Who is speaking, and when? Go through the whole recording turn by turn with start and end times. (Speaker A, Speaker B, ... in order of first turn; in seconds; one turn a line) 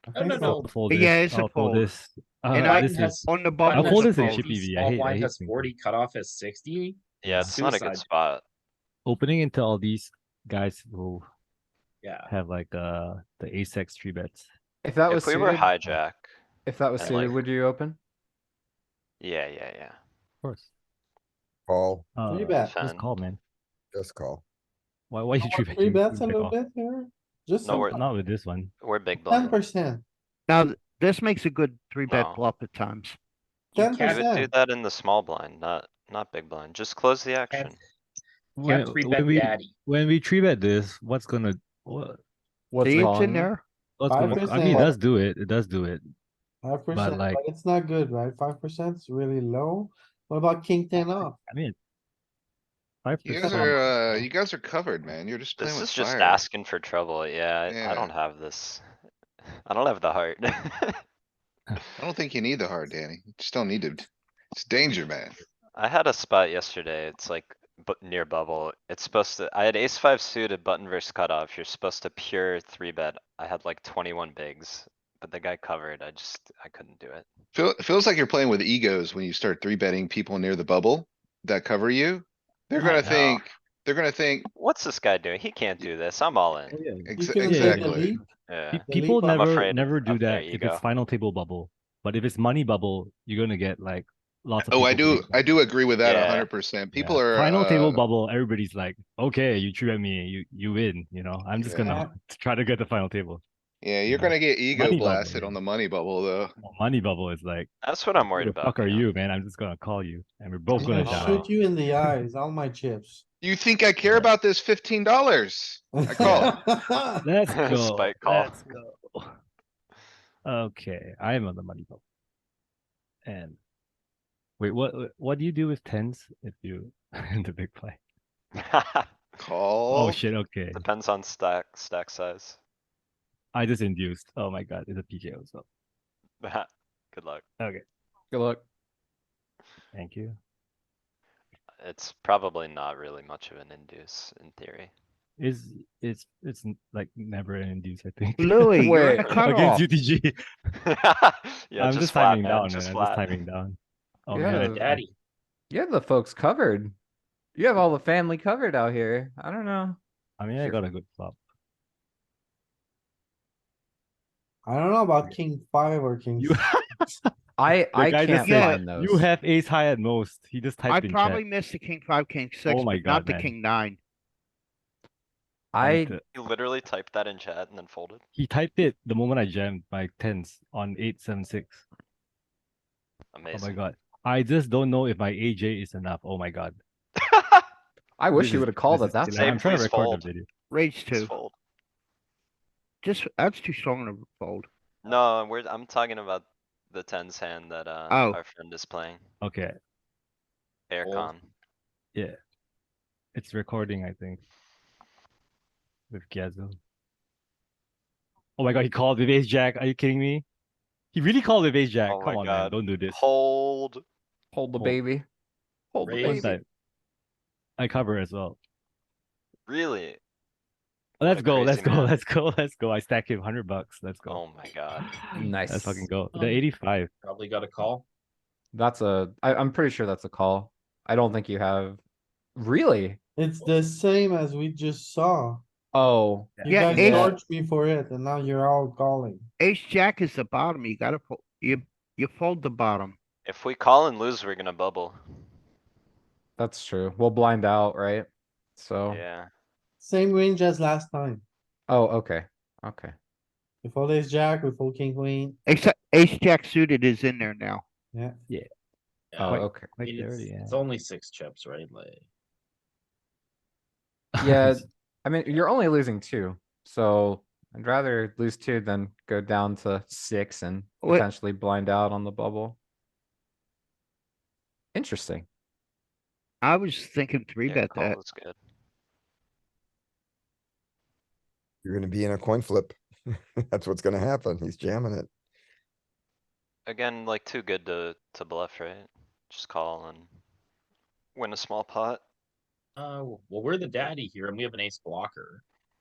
Speaker A: 0.1-0.7
Speaker B: 0.1-0.7
Speaker C: 0.5-5.7
Speaker D: 0.9-1.9
Speaker D: 2.5-4.5
Speaker B: 2.5-8.0
Speaker E: 7.2-8.4
Speaker C: 9.1-11.2
Speaker B: 12.0-12.3
Speaker C: 12.3-14.5
Speaker F: 14.8-15.7
Speaker E: 15.1-16.3
Speaker F: 16.6-18.0
Speaker E: 17.0-17.4
Speaker E: 19.2-20.0
Speaker C: 20.4-20.7
Speaker G: 21.7-22.0
Speaker C: 22.2-23.4
Speaker A: 22.3-22.7
Speaker E: 22.6-23.1
Speaker G: 23.9-24.4
Speaker C: 25.1-26.5
Speaker A: 25.4-28.0
Speaker E: 27.6-28.0
Speaker C: 27.7-28.7
Speaker E: 28.8-29.6
Speaker A: 29.2-30.0
Speaker D: 30.5-33.2
Speaker E: 32.1-32.4
Speaker A: 33.7-34.5
Speaker B: 33.8-34.2
Speaker E: 34.0-37.8
Speaker B: 37.5-37.8
Speaker C: 38.6-42.2
Speaker B: 38.6-39.7
Speaker F: 42.7-43.5
Speaker D: 42.8-43.6
Speaker C: 44.0-46.0
Speaker A: 44.1-44.9
Speaker A: 46.6-51.4
Speaker C: 46.9-47.4
Speaker C: 51.5-51.7
Speaker C: 53.0-54.3
Speaker H: 53.2-56.4
Speaker A: 53.3-53.9
Speaker E: 55.6-58.8
Speaker H: 57.7-58.1
Speaker E: 59.6-61.0
Speaker H: 62.0-65.4
Speaker E: 65.7-77.3
Speaker H: 77.5-84.5
Speaker E: 82.8-83.4
Speaker E: 84.5-86.8
Speaker C: 86.7-95.4
Speaker H: 87.1-88.1
Speaker A: 87.1-88.2
Speaker E: 88.5-90.8
Speaker A: 88.8-89.5
Speaker H: 94.6-98.0
Speaker E: 96.0-96.5
Speaker C: 96.9-103.4
Speaker H: 101.6-102.0
Speaker A: 101.8-102.1
Speaker H: 103.8-106.5
Speaker C: 104.1-105.6
Speaker C: 106.6-111.5
Speaker E: 107.8-109.1
Speaker A: 110.8-113.2
Speaker H: 113.4-116.6
Speaker C: 114.0-114.3
Speaker A: 115.9-117.2
Speaker C: 116.2-116.5
Speaker C: 117.2-119.3
Speaker E: 117.5-118.6
Speaker C: 120.4-122.0
Speaker C: 123.2-123.6
Speaker C: 124.6-128.0
Speaker E: 128.6-129.1
Speaker H: 129.4-130.2
Speaker C: 129.9-130.8
Speaker E: 130.7-132.6
Speaker C: 133.5-135.6
Speaker E: 136.4-137.4
Speaker F: 138.3-138.6
Speaker C: 139.9-140.4
Speaker E: 141.8-144.9
Speaker C: 145.4-150.3
Speaker D: 148.4-149.8
Speaker F: 148.8-149.3
Speaker E: 149.2-149.4
Speaker E: 150.9-153.2
Speaker C: 151.8-155.0
Speaker F: 154.3-154.9
Speaker B: 154.4-155.1
Speaker F: 155.7-156.9
Speaker F: 157.5-160.0
Speaker C: 160.4-161.4
Speaker A: 164.6-166.6
Speaker C: 166.4-167.2
Speaker F: 167.6-169.2
Speaker C: 167.9-171.4
Speaker D: 168.4-168.8
Speaker D: 170.9-174.0
Speaker C: 172.6-173.5
Speaker F: 175.7-176.1
Speaker C: 175.8-176.2
Speaker E: 176.3-178.2
Speaker C: 178.3-181.8
Speaker E: 183.3-183.8
Speaker C: 183.5-186.8
Speaker E: 187.2-187.6
Speaker F: 188.2-189.6
Speaker C: 188.3-190.5
Speaker E: 189.3-190.3
Speaker D: 190.7-191.3
Speaker E: 191.1-191.5
Speaker D: 193.0-194.7
Speaker E: 195.0-199.2
Speaker D: 198.1-198.4
Speaker C: 199.4-199.7
Speaker E: 200.9-201.5
Speaker B: 201.0-201.3
Speaker C: 203.3-204.4
Speaker C: 206.1-206.8
Speaker C: 208.6-210.4
Speaker C: 211.1-213.2
Speaker E: 212.1-214.0
Speaker F: 214.5-215.2
Speaker F: 215.9-216.5
Speaker B: 216.0-216.5
Speaker C: 216.2-216.6
Speaker C: 217.8-218.6
Speaker E: 219.7-220.2
Speaker C: 221.2-224.4
Speaker E: 221.2-222.1
Speaker E: 224.3-225.1
Speaker C: 225.0-227.1
Speaker F: 225.3-226.1
Speaker B: 226.3-226.6
Speaker B: 227.2-228.1
Speaker F: 228.7-232.0
Speaker F: 232.6-233.2
Speaker A: 233.4-235.6
Speaker F: 235.9-236.5
Speaker A: 236.6-239.5
Speaker D: 236.7-237.4
Speaker B: 236.9-237.3
Speaker D: 239.6-243.2
Speaker E: 243.4-245.2
Speaker F: 246.6-249.2
Speaker E: 249.1-249.5
Speaker A: 250.0-251.4
Speaker F: 251.9-253.1
Speaker A: 253.8-255.6
Speaker D: 255.7-257.8
Speaker B: 259.3-262.2
Speaker F: 259.4-259.9
Speaker C: 259.4-260.8
Speaker C: 264.4-264.8
Speaker F: 264.4-272.8
Speaker F: 274.9-275.4
Speaker D: 276.6-278.2
Speaker E: 277.6-278.6
Speaker G: 281.8-285.3
Speaker E: 286.9-290.3
Speaker E: 291.3-292.2
Speaker B: 293.0-295.6